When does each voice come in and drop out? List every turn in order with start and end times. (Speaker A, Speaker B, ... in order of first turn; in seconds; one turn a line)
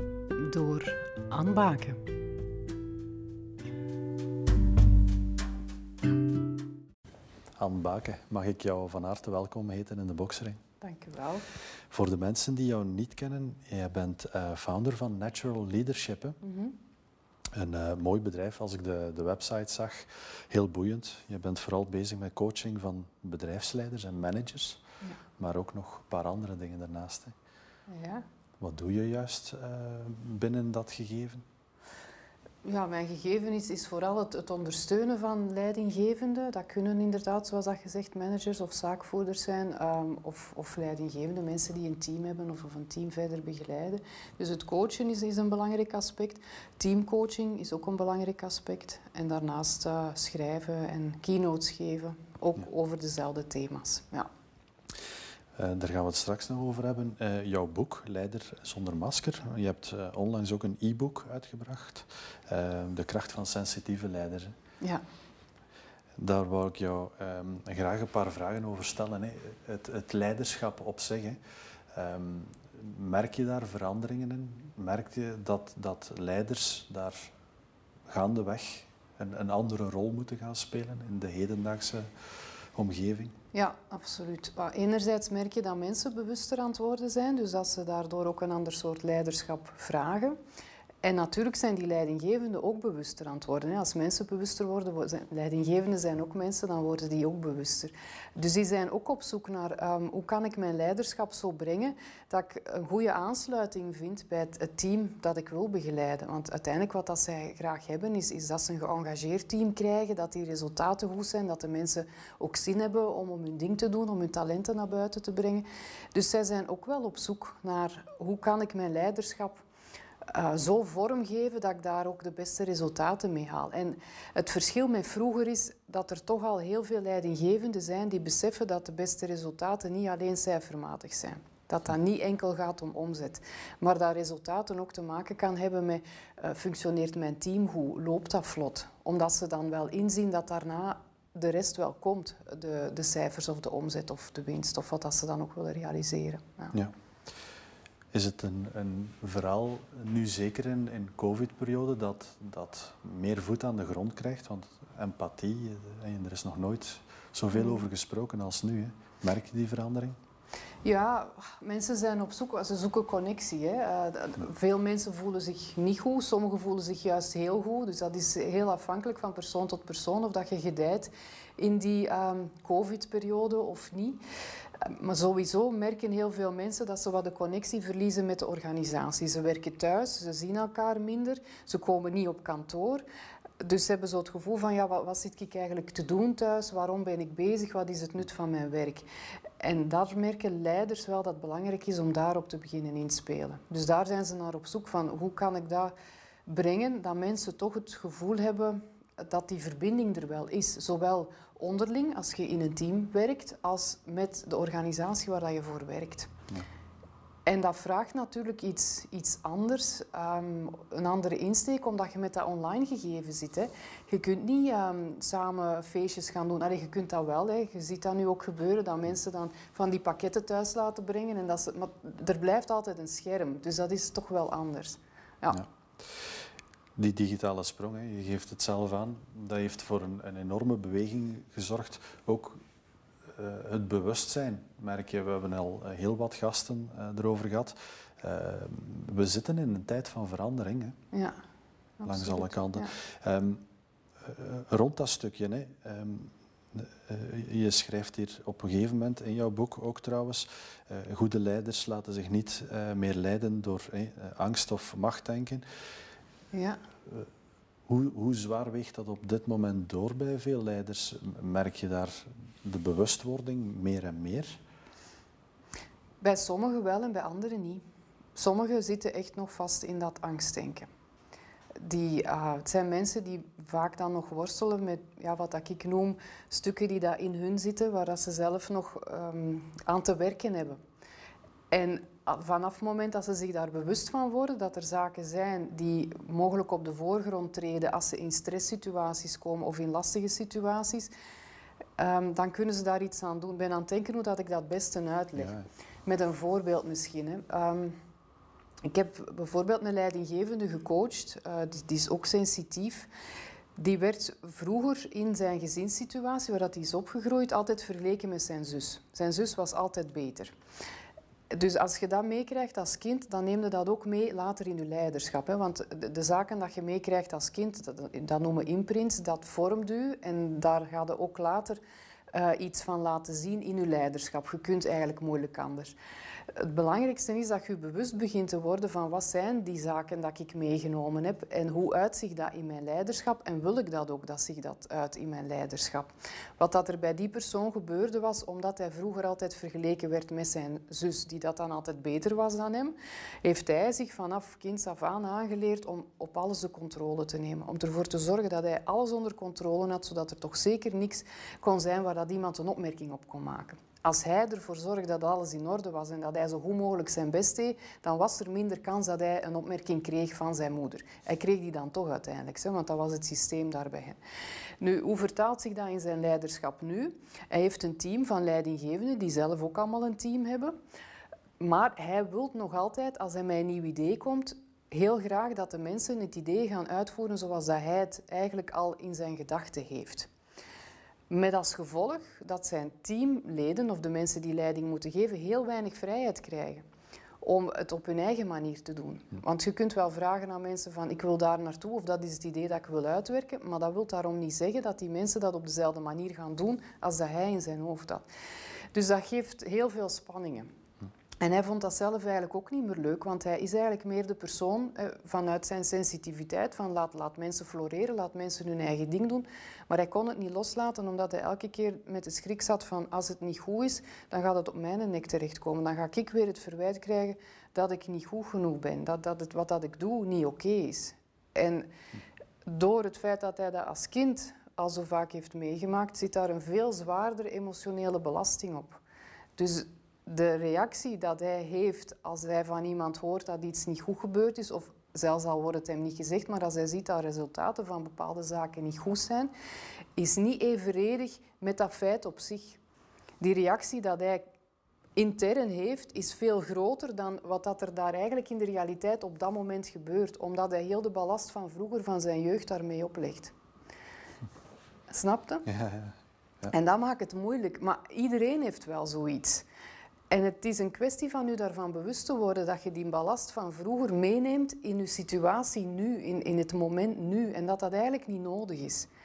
Speaker A: 0.4-2.0
Speaker B: 7.6-10.6
Speaker A: 10.8-11.4
Speaker B: 11.9-16.4
Speaker A: 16.4-16.8
Speaker B: 17.6-24.8
Speaker B: 25.4-27.3
Speaker A: 27.9-28.2
Speaker B: 28.6-31.4
Speaker A: 32.6-54.3
Speaker B: 55.6-64.5
Speaker B: 66.2-71.4
Speaker B: 71.9-77.3
Speaker B: 78.1-82.1
Speaker B: 82.8-83.3
Speaker A: 83.5-90.4
Speaker A: 91.0-119.6
Speaker A: 120.3-146.8
Speaker B: 148.1-160.2
Speaker A: 157.6-157.8
Speaker A: 160.8-174.2
Speaker A: 174.8-183.0
Speaker A: 183.6-189.1
Speaker A: 189.6-195.9
Speaker A: 196.5-206.3
Speaker A: 207.5-225.7
Speaker B: 225.5-226.3
Speaker B: 227.0-232.6
Speaker B: 233.4-240.9
Speaker A: 241.1-241.4
Speaker A: 242.0-242.9
Speaker B: 242.1-243.6
Speaker B: 244.2-255.6
Speaker A: 256.5-256.8
Speaker B: 257.9-264.6
Speaker A: 266.2-267.8
Speaker A: 268.4-270.9
Speaker A: 271.8-280.8
Speaker A: 281.7-291.1
Speaker A: 292.0-298.0
Speaker B: 295.4-295.7
Speaker A: 298.9-303.1
Speaker A: 303.8-310.6
Speaker A: 311.5-321.8
Speaker A: 322.3-326.0
Speaker A: 326.5-364.2
Speaker A: 364.8-370.7
Speaker A: 371.6-380.3
Speaker A: 381.3-386.8
Speaker A: 387.4-398.2
Speaker A: 398.9-400.7
Speaker A: 401.4-421.9
Speaker A: 422.7-429.0
Speaker A: 429.6-439.5
Speaker A: 440.2-442.8
Speaker A: 443.4-444.4
Speaker A: 445.2-453.5
Speaker A: 455.1-455.7
Speaker B: 455.7-456.7
Speaker A: 456.7-459.7
Speaker A: 460.3-469.1